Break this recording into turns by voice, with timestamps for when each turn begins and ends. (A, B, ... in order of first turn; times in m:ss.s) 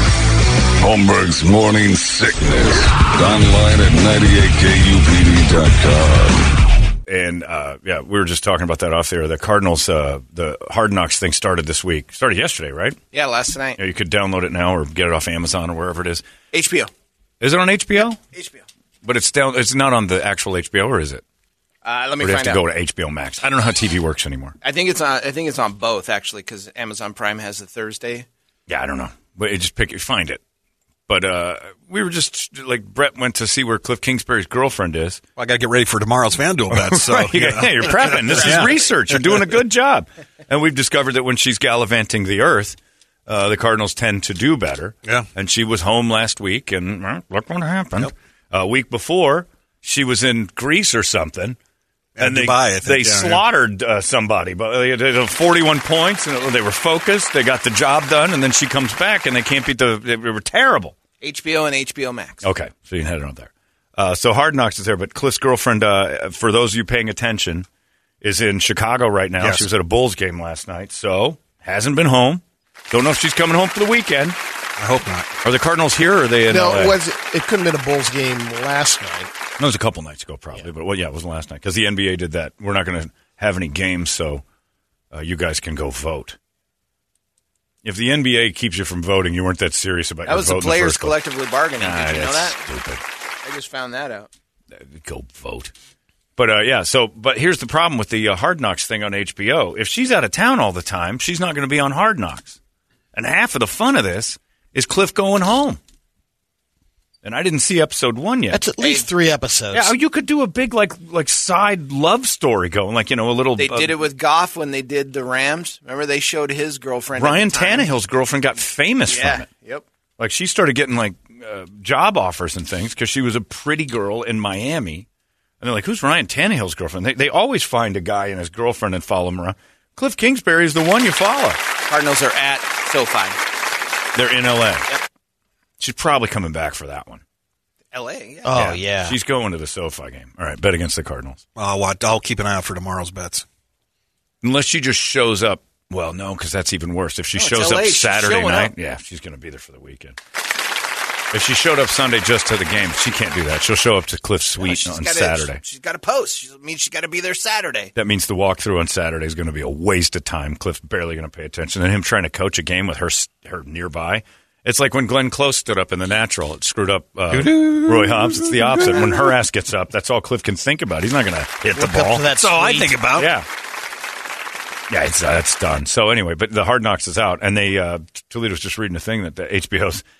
0:00.8-0:06.6 A
0:07.1-0:13.0 B
0:13.1-0:13.8 C
0:13.8-0:16.2 B
0:16.5-0:16.9 C
0:17.4-0:18.2 B
0:18.2-0:18.6 C
0:19.0-0:21.2 B
0:21.8-0:22.6 C
0:22.2-0:24.6 B
0:24.6-0:28.3 C
0:28.7-0:30.4 B
0:31.1-0:35.2 B
0:35.4-0:38.8 D
0:36.7-0:51.6 B
0:52.2-0:53.4 D
0:52.2-1:01.0 B
1:01.2-1:02.4 C
1:02.4-1:07.7 B
1:08.2-1:14.4 B
1:09.4-1:09.7 D
1:14.8-1:15.3 D
1:15.4-1:17.0 B
1:16.5-1:19.3 E
1:19.6-1:24.4 B
1:25.1-1:26.4 B
1:27.8-1:31.2 B
1:30.2-1:32.7 C
1:31.8-1:33.0 B
1:33.4-1:34.3 C
1:34.8-1:35.7 B
1:36.4-1:42.6 B
1:43.1-1:45.8 B
1:47.2-1:48.6 B
1:48.5-1:49.9 E
1:48.8-1:49.1 C
1:49.7-1:54.0 B
1:53.6-1:58.0 C
1:57.2-1:59.5 B
1:59.1-1:59.8 C
2:00.2-2:05.1 B
2:05.6-2:11.6 B
2:11.8-2:13.4 C
2:14.2-2:14.9 B
2:15.8-2:17.2 B
2:17.9-2:18.7 C
2:18.4-2:19.2 E
2:18.6-2:21.4 B
2:21.6-2:23.4 D
2:24.4-2:30.2 B
2:27.3-2:28.7 C
2:31.3-2:35.6 B
2:34.6-2:37.9 C
2:37.9-2:52.3 B
2:47.3-2:49.3 D
2:51.7-2:52.9 E
2:52.3-2:53.3 D
2:53.2-2:53.5 B
2:54.9-3:00.0 B